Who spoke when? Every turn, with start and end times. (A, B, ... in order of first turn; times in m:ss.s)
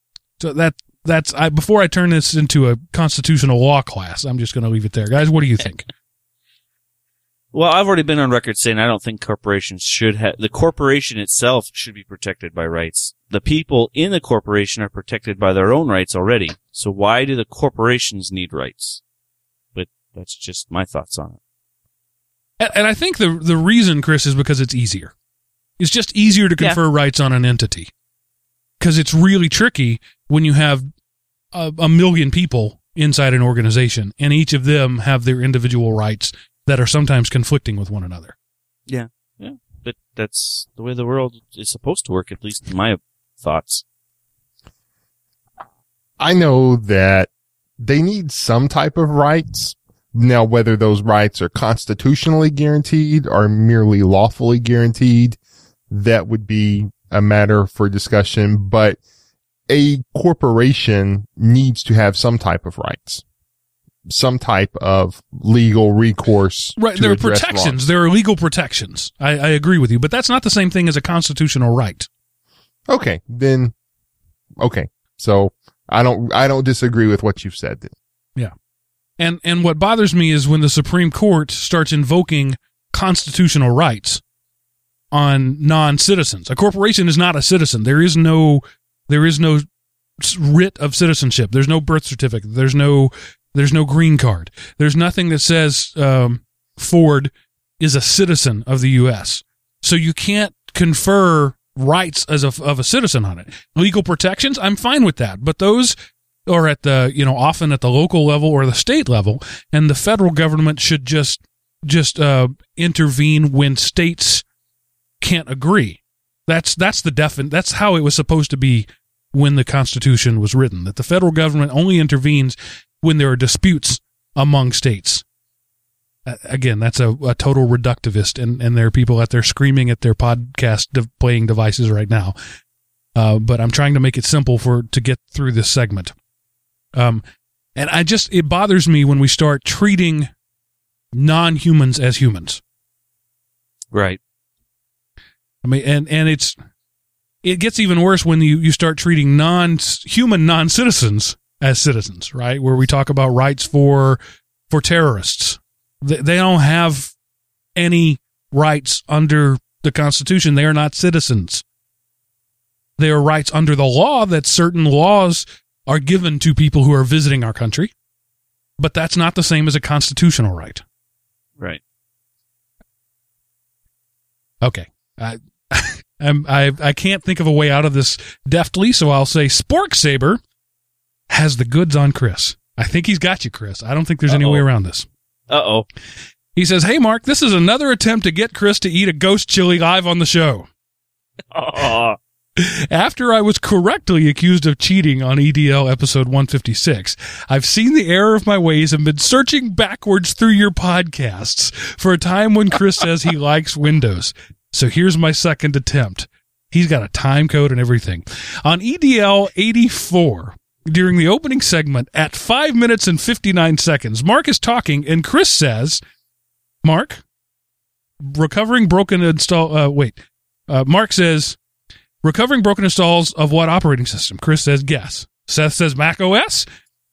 0:00.4-0:05.9 A
0:07.5-0:19.0 B
0:19.8-0:21.4 B
0:22.6-0:25.1 A
0:25.8-0:27.9 A
0:28.8-0:30.9 A
0:31.5-0:38.4 A
0:38.9-0:43.8 B
0:46.2-0:55.4 C
0:55.9-0:59.0 C
0:59.7-1:03.2 C
1:04.1-1:07.8 C
1:06.8-1:12.1 A
1:12.9-1:13.7 C
1:14.6-1:17.9 C
1:19.2-1:24.2 A
1:25.1-1:29.7 A
1:30.2-1:46.0 A
1:46.5-1:54.4 A
1:55.2-2:05.2 A
2:06.3-2:12.4 A
2:13.2-2:16.1 A
2:17.0-2:17.2 A
2:17.8-2:20.3 A
2:21.1-2:22.6 A
2:23.9-2:24.2 B
2:25.6-2:26.6 A
2:27.4-2:34.2 A
2:34.7-2:37.2 A
2:37.8-2:41.6 A
2:43.0-2:47.9 A
2:48.8-2:50.8 A
2:54.6-3:00.4 A
3:01.3-3:05.1 A
3:04.3-3:04.6 B
3:05.5-3:05.9 B
3:06.6-3:10.7 A
3:11.5-3:12.2 B
3:12.6-3:36.0 A
3:36.8-3:37.2 A
3:38.2-3:41.6 A
3:42.2-3:46.6 A